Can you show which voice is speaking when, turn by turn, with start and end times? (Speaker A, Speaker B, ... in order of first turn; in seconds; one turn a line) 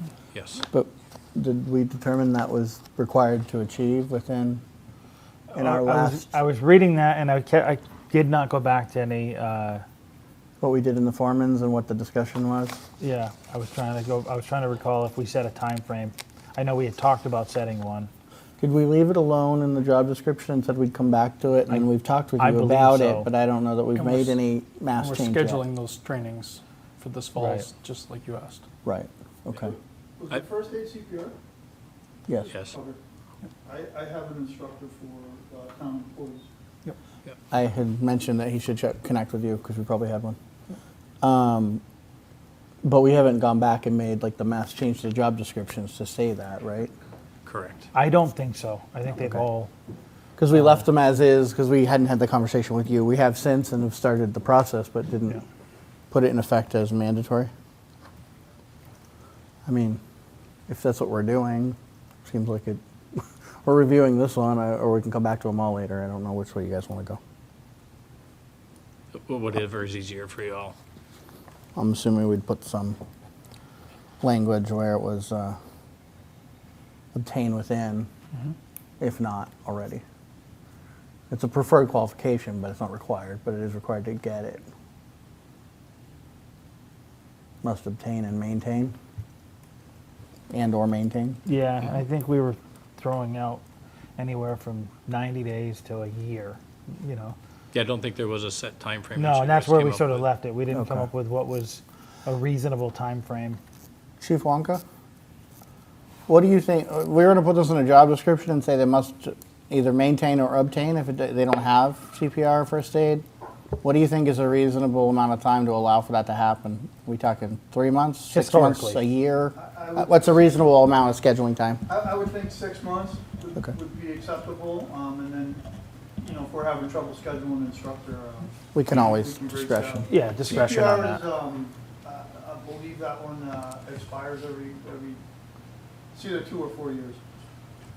Speaker A: 0.3-0.6
Speaker B: 0.7-4.6
Speaker C: 5.5-9.8
Speaker B: 5.6-6.3
Speaker B: 10.6-12.8
Speaker C: 13.0-18.1
Speaker B: 18.6-25.6
Speaker C: 22.4-23.3
Speaker D: 25.0-28.6
Speaker C: 27.3-27.8
Speaker B: 28.8-29.8
Speaker E: 29.7-31.3
Speaker B: 32.3-32.5
Speaker A: 32.5-32.7
Speaker E: 32.6-33.0
Speaker E: 33.6-36.5
Speaker B: 37.5-40.4
Speaker B: 41.2-41.8
Speaker B: 42.8-46.9
Speaker A: 47.4-47.9
Speaker C: 47.9-49.7
Speaker B: 50.4-55.4
Speaker C: 50.5-50.9
Speaker B: 56.1-57.5
Speaker B: 59.6-60.0
Speaker B: 60.7-62.8
Speaker B: 63.6-67.2
Speaker A: 69.1-70.8
Speaker B: 71.8-73.0
Speaker B: 74.2-75.6
Speaker B: 77.1-78.1
Speaker B: 79.0-80.0
Speaker B: 81.3-84.6
Speaker B: 87.6-88.9
Speaker B: 90.5-91.4
Speaker C: 91.4-93.6
Speaker C: 94.2-97.3
Speaker A: 97.7-100.2
Speaker C: 99.2-103.6
Speaker B: 100.7-101.0
Speaker B: 104.2-104.8
Speaker B: 106.3-113.2
Speaker B: 113.8-121.8
Speaker C: 118.3-119.0
Speaker E: 119.5-120.5
Speaker E: 121.9-125.6
Speaker E: 126.2-135.2
Speaker B: 128.7-130.1
Speaker C: 130.1-131.2
Speaker E: 136.1-137.2